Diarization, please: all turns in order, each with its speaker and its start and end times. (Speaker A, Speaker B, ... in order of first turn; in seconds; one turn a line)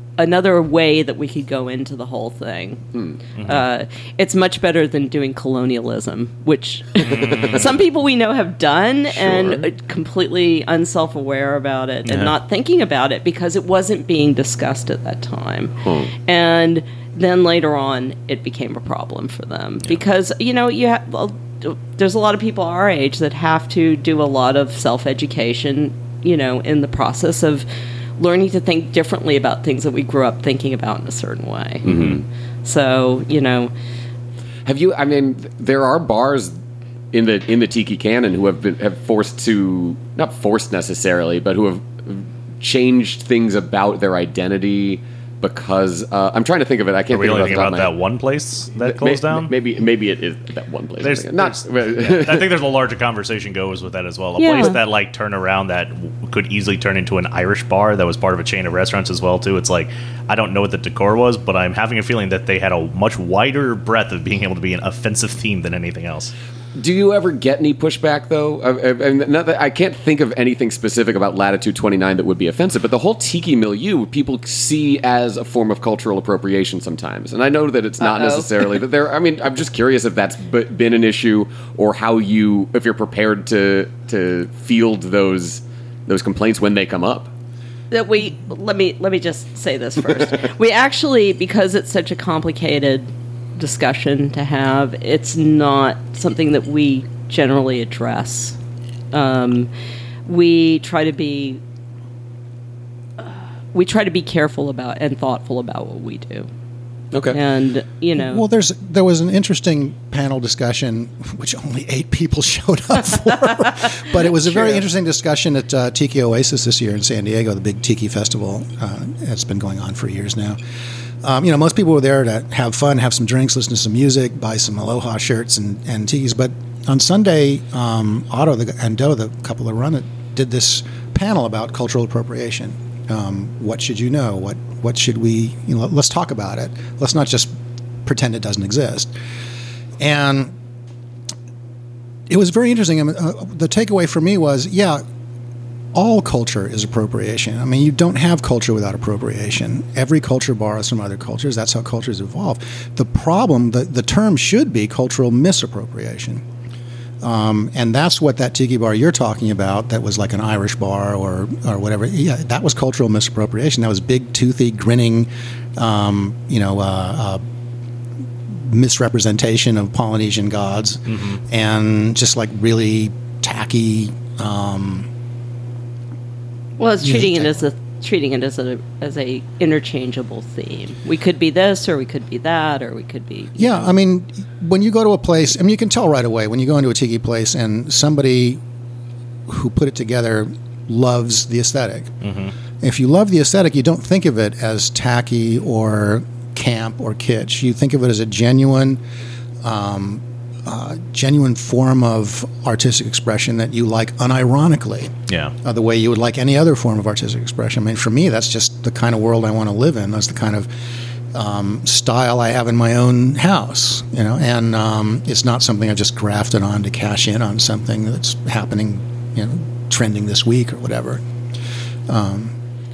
Speaker A: 0.2-27.6
Speaker B: 3.4-3.6
Speaker B: 7.1-7.5
Speaker C: 9.1-9.6
Speaker B: 12.1-12.3
Speaker C: 15.8-16.1
Speaker A: 28.2-33.7
Speaker C: 31.8-32.2
Speaker C: 34.6-36.5
Speaker C: 37.1-47.9
Speaker B: 47.1-49.5
Speaker C: 48.8-52.5
Speaker B: 51.0-66.3
Speaker A: 54.4-54.8
Speaker C: 66.8-87.3
Speaker A: 78.0-78.5
Speaker A: 87.9-98.6
Speaker A: 99.1-99.7
Speaker A: 100.2-101.6
Speaker A: 103.2-106.5
Speaker C: 107.1-107.4
Speaker A: 107.3-108.4
Speaker D: 108.2-120.6
Speaker D: 121.2-137.5
Speaker D: 138.0-139.1
Speaker D: 140.0-140.5
Speaker D: 142.3-145.0
Speaker D: 145.9-156.4
Speaker D: 157.2-167.4
Speaker D: 168.5-175.1
Speaker B: 171.1-171.4
Speaker A: 176.8-183.9
Speaker D: 177.0-177.6
Speaker D: 183.6-188.6
Speaker D: 189.5-192.1
Speaker B: 192.2-192.5
Speaker D: 192.8-199.0
Speaker D: 199.6-205.1
Speaker B: 205.3-205.5
Speaker D: 205.6-210.7
Speaker D: 211.3-221.2
Speaker D: 222.1-222.6